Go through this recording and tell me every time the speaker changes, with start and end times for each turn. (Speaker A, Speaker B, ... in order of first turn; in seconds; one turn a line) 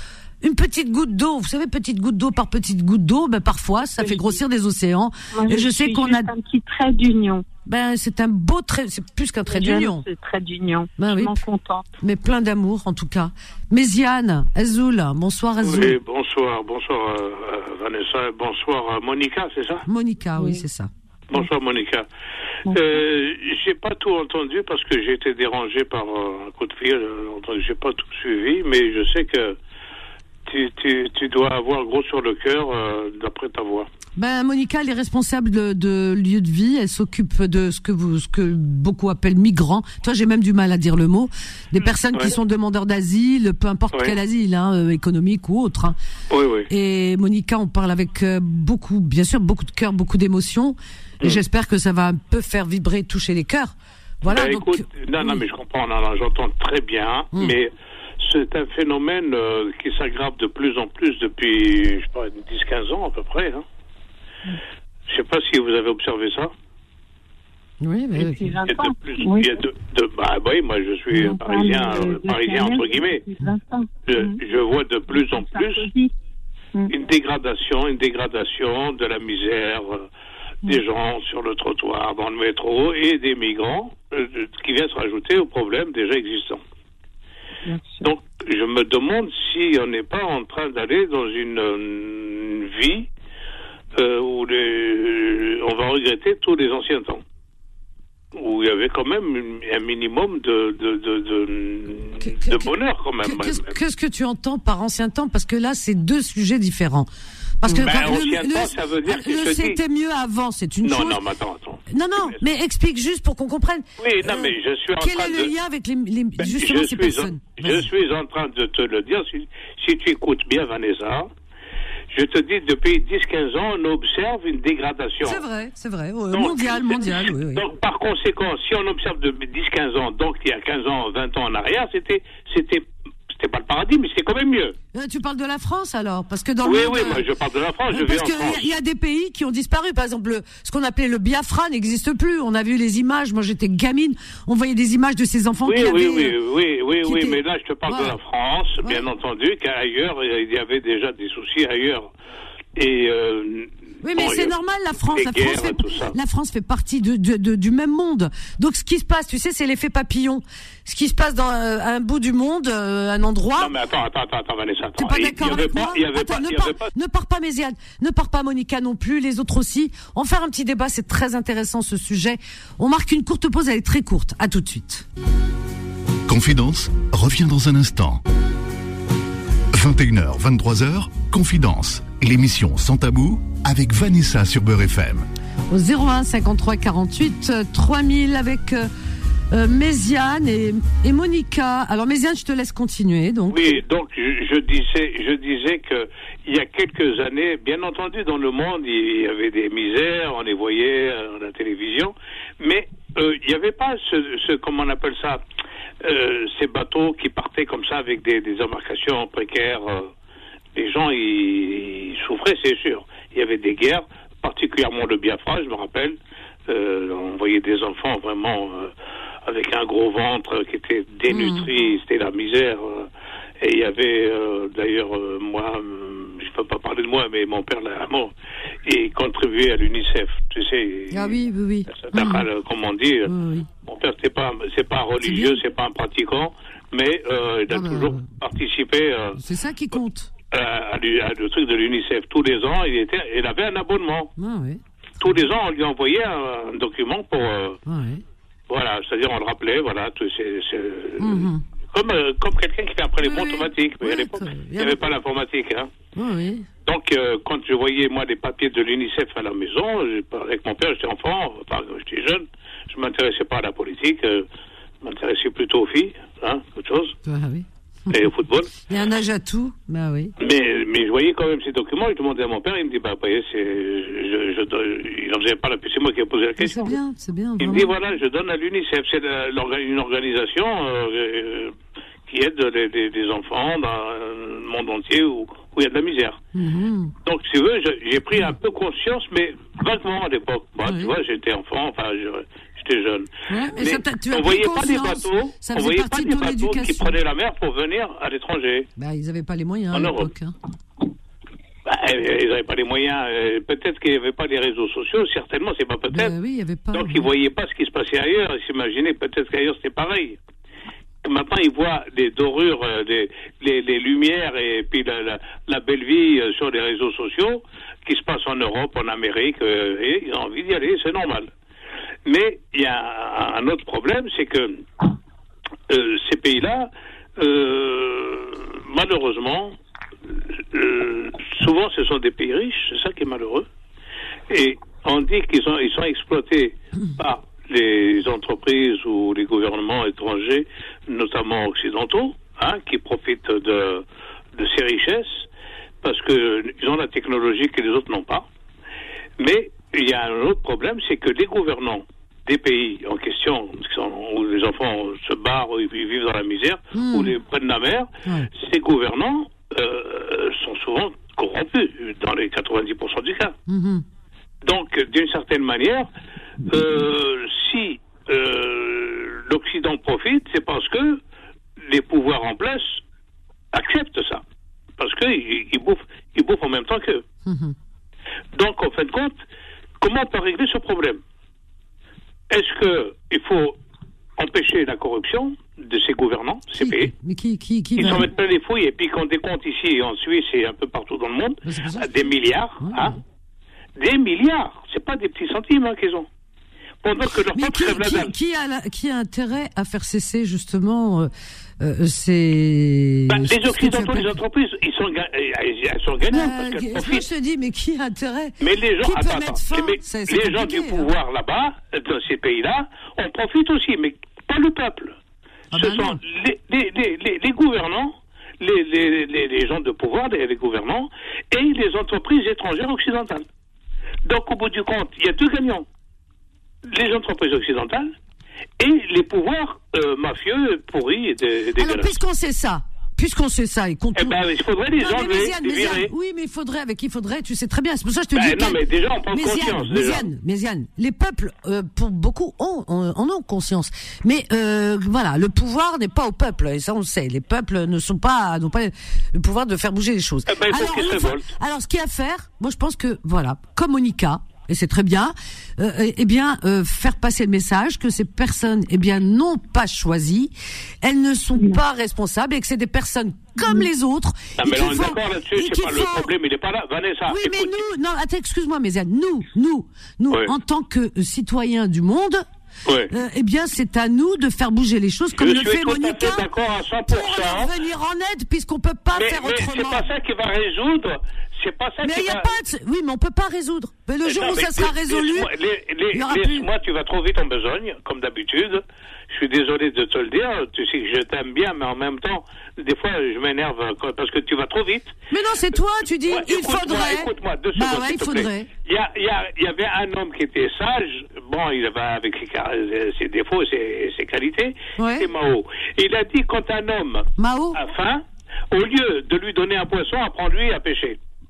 Speaker A: 0.4-6.3
Speaker B: 4.0-4.3
Speaker B: 5.3-7.5
Speaker A: 7.6-10.0
Speaker B: 9.4-11.8
Speaker A: 11.0-11.4
Speaker A: 12.0-16.0
Speaker C: 15.6-19.8
Speaker A: 19.9-20.9
Speaker B: 20.4-20.6
Speaker C: 21.3-22.1
Speaker C: 22.7-29.6
Speaker C: 30.4-33.9
Speaker A: 34.1-46.0
Speaker C: 46.3-46.7
Speaker A: 46.7-55.4
Speaker C: 54.2-63.6
Speaker C: 65.1-66.5
Speaker A: 67.8-68.5
Speaker B: 68.1-69.5
Speaker C: 68.7-73.2
Speaker B: 71.1-74.4
Speaker C: 74.1-75.9
Speaker B: 75.1-76.1
Speaker C: 76.9-80.1
Speaker C: 80.6-86.6
Speaker B: 87.7-88.0
Speaker C: 88.0-93.1
Speaker C: 94.0-97.2
Speaker C: 98.3-103.7
Speaker A: 102.4-102.7
Speaker A: 103.2-107.1
Speaker A: 107.6-111.2
Speaker C: 107.7-109.8
Speaker C: 110.8-112.4
Speaker A: 111.9-117.8
Speaker C: 114.0-115.5
Speaker C: 116.4-121.3
Speaker C: 122.1-125.4
Speaker A: 125.2-127.7
Speaker C: 126.3-134.8
Speaker A: 134.9-137.2
Speaker C: 136.6-138.7
Speaker A: 137.9-146.3
Speaker C: 145.6-152.1
Speaker A: 147.0-148.2
Speaker C: 152.8-154.5
Speaker A: 154.0-163.7
Speaker C: 155.1-156.1
Speaker C: 163.6-166.9
Speaker A: 165.0-175.1
Speaker D: 176.2-178.2
Speaker D: 179.7-185.2
Speaker A: 185.7-188.9
Speaker A: 189.5-193.8
Speaker C: 193.5-205.4
Speaker C: 206.0-210.1
Speaker C: 210.7-216.1
Speaker C: 216.7-218.9
Speaker C: 219.4-223.1
Speaker A: 221.3-221.7
Speaker C: 223.6-228.3
Speaker C: 228.8-231.3
Speaker A: 231.1-232.4
Speaker C: 231.9-239.4
Speaker A: 233.2-233.7
Speaker A: 235.2-235.6
Speaker A: 237.7-238.3
Speaker A: 239.3-240.3
Speaker C: 240.5-244.3
Speaker A: 244.4-244.8
Speaker C: 245.2-247.8
Speaker A: 247.8-248.2
Speaker C: 248.7-255.9
Speaker A: 251.2-251.6
Speaker A: 253.2-255.0
Speaker A: 256.1-256.7
Speaker C: 256.8-264.5
Speaker C: 265.0-267.1
Speaker A: 267.2-268.2
Speaker C: 268.1-268.7
Speaker A: 268.8-270.3
Speaker C: 270.4-277.0
Speaker A: 276.6-277.9
Speaker C: 277.6-281.8
Speaker C: 282.3-286.4
Speaker A: 286.5-287.1
Speaker C: 287.2-298.9
Speaker A: 290.8-291.1
Speaker A: 293.5-297.2
Speaker A: 298.9-300.5
Speaker C: 299.9-300.3
Speaker C: 301.9-306.3
Speaker A: 306.1-307.3
Speaker C: 306.9-310.4
Speaker C: 311.2-321.5
Speaker C: 322.2-325.0
Speaker C: 325.9-329.8
Speaker C: 330.7-333.6
Speaker C: 334.5-344.0
Speaker C: 344.6-345.4
Speaker C: 346.0-348.4
Speaker C: 349.4-363.5
Speaker A: 356.9-357.3
Speaker A: 363.7-364.0
Speaker C: 364.6-366.1
Speaker C: 366.7-371.2
Speaker C: 371.9-373.0
Speaker C: 373.7-374.4
Speaker C: 375.0-377.2
Speaker A: 377.4-377.7
Speaker C: 378.5-379.4
Speaker C: 380.0-381.2
Speaker C: 382.5-383.8
Speaker C: 384.4-387.1
Speaker A: 386.7-388.3
Speaker C: 388.0-393.2
Speaker A: 391.6-392.2
Speaker A: 392.8-393.2
Speaker C: 394.0-396.3
Speaker C: 397.0-398.3
Speaker A: 397.5-404.3
Speaker C: 403.3-407.2
Speaker A: 406.3-411.1
Speaker C: 408.6-415.1
Speaker A: 415.7-416.2
Speaker C: 415.7-423.4
Speaker C: 424.2-425.9
Speaker C: 426.9-428.1
Speaker C: 428.8-432.1
Speaker A: 431.8-434.4
Speaker C: 434.1-436.1
Speaker A: 435.0-466.3
Speaker C: 438.3-440.3
Speaker C: 450.4-451.5
Speaker C: 464.6-467.8
Speaker A: 467.2-472.4
Speaker C: 472.9-473.1
Speaker A: 473.1-476.5
Speaker C: 475.4-477.7
Speaker A: 477.1-480.1
Speaker C: 479.1-482.5
Speaker A: 482.0-485.5
Speaker C: 484.2-495.1
Speaker A: 486.1-486.7
Speaker A: 495.3-498.7
Speaker C: 496.3-511.2
Speaker A: 505.0-505.3
Speaker A: 507.4-507.8